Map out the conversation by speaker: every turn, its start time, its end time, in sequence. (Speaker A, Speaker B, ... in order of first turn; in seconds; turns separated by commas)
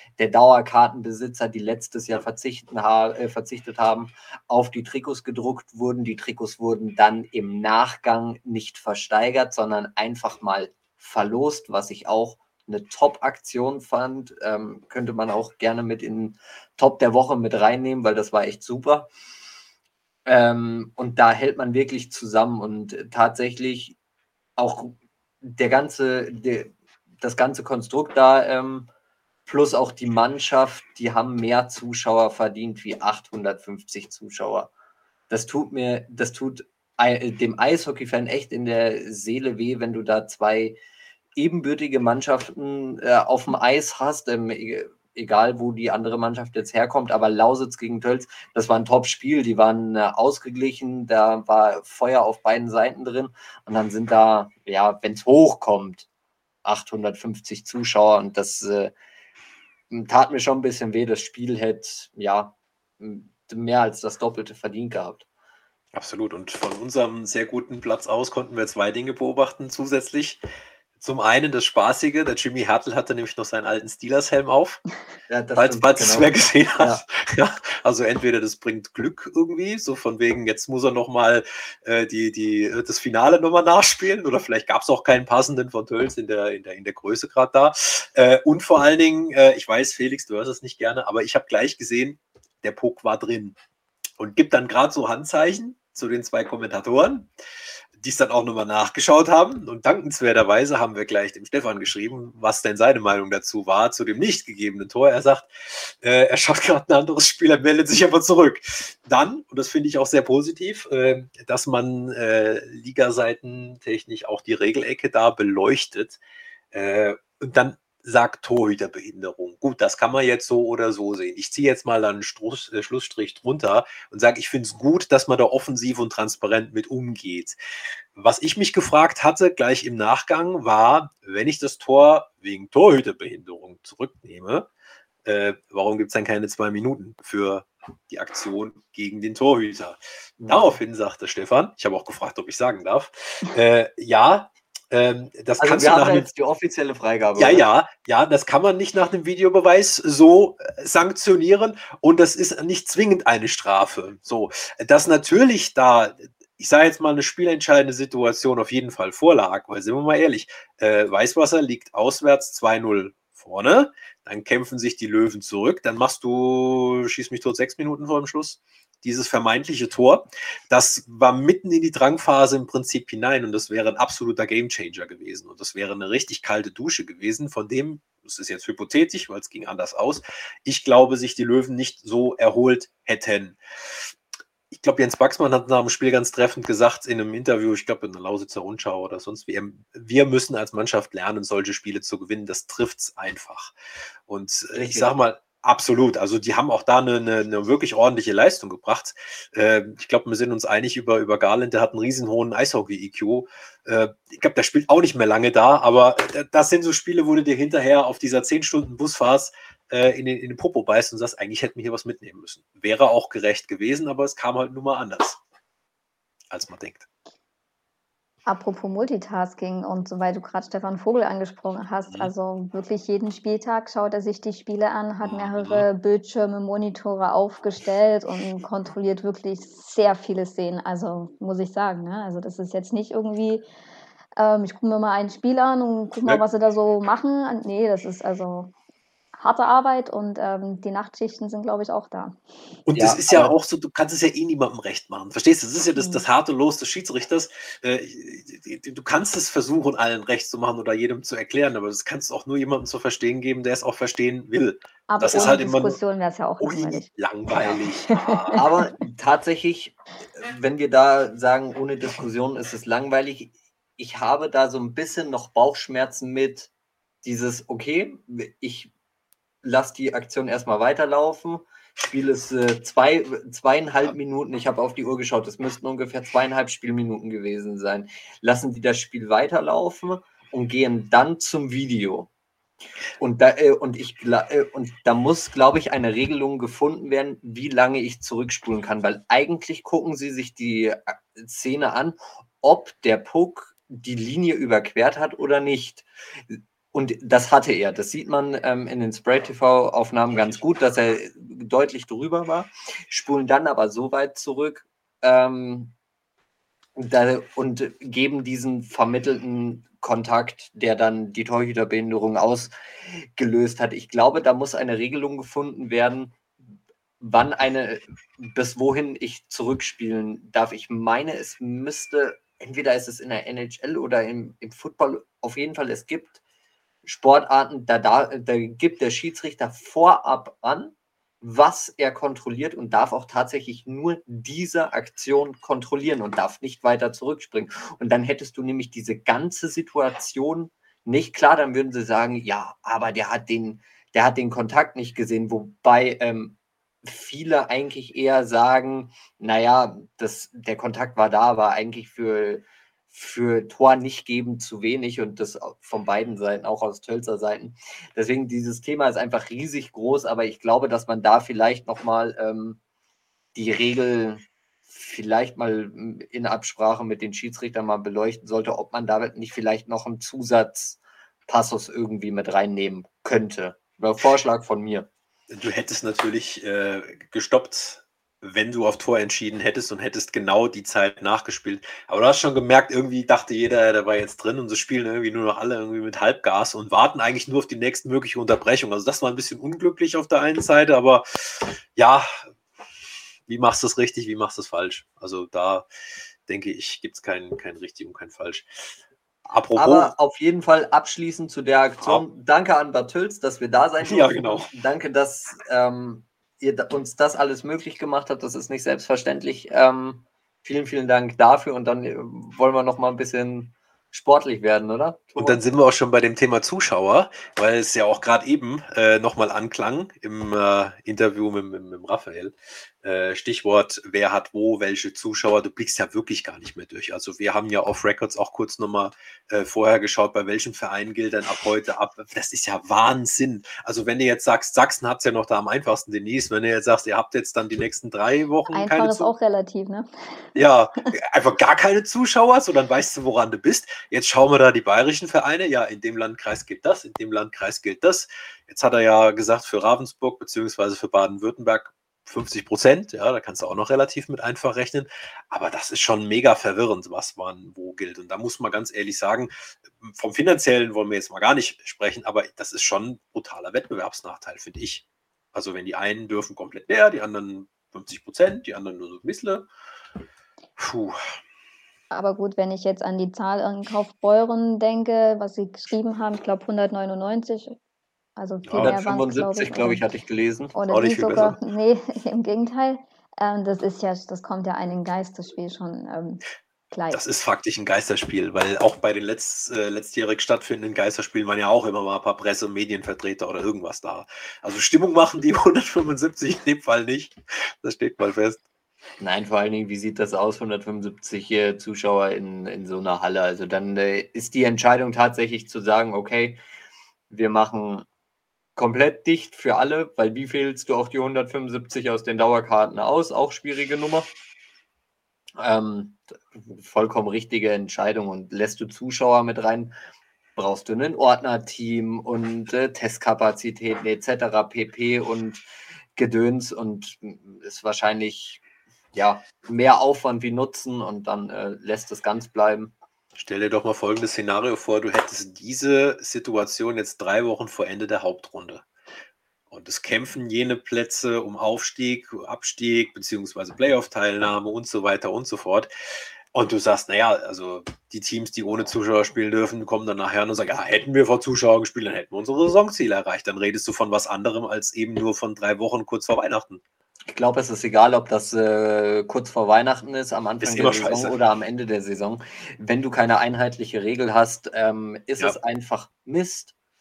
Speaker A: 0.2-19.1, Speaker A: 20.2-24.0, Speaker A: 24.6-28.9, Speaker A: 29.4-34.7, Speaker A: 35.3-40.8, Speaker A: 41.4-56.1, Speaker A: 56.6-58.9, Speaker A: 59.9-65.2, Speaker B: 65.9-70.4, Speaker B: 71.0-74.8, Speaker A: 75.3-77.0, Speaker B: 75.6-93.6, Speaker B: 94.2-97.3, Speaker B: 98.0-116.2, Speaker B: 116.7-127.6, Speaker B: 128.1-134.7, Speaker B: 135.2-146.3, Speaker A: 140.4-140.8, Speaker A: 145.6-147.7, Speaker B: 147.4-183.6, Speaker B: 184.7-193.7, Speaker B: 194.3-215.4, Speaker A: 194.7-195.1, Speaker B: 216.5-217.1, Speaker C: 218.5-233.7, Speaker B: 225.2-225.9, Speaker C: 234.4-238.7, Speaker C: 239.4-242.4, Speaker B: 242.9-256.0, Speaker A: 242.9-243.5, Speaker C: 246.0-246.2, Speaker C: 255.1-257.1, Speaker A: 255.3-255.6, Speaker B: 256.6-258.6, Speaker C: 258.1-258.8, Speaker A: 258.5-266.7, Speaker A: 267.2-268.9, Speaker A: 269.6-282.3, Speaker A: 283.2-305.9, Speaker A: 307.0-312.7, Speaker A: 313.4-316.4, Speaker A: 317.2-326.4, Speaker A: 327.0-362.8, Speaker A: 363.5-375.1, Speaker B: 375.5-392.5, Speaker B: 393.5-395.9, Speaker B: 396.5-398.7, Speaker B: 399.4-400.1, Speaker A: 399.8-415.6, Speaker B: 404.0-404.7, Speaker B: 415.4-439.3, Speaker C: 438.7-440.5, Speaker B: 440.5-469.7, Speaker B: 470.8-471.2, Speaker C: 472.1-477.8, Speaker C: 478.4-480.1, Speaker B: 478.6-479.0, Speaker A: 478.8-480.7, Speaker C: 480.7-487.2, Speaker B: 480.9-481.6, Speaker B: 487.1-498.6, Speaker A: 499.2-506.6, Speaker A: 507.3-508.1, Speaker A: 508.8-514.3, Speaker A: 515.6-519.9, Speaker A: 520.5-525.6, Speaker A: 526.1-528.6, Speaker A: 529.1-532.9, Speaker B: 533.4-538.9, Speaker B: 539.7-545.9, Speaker B: 546.5-556.8, Speaker A: 557.3-566.7, Speaker B: 560.6-561.4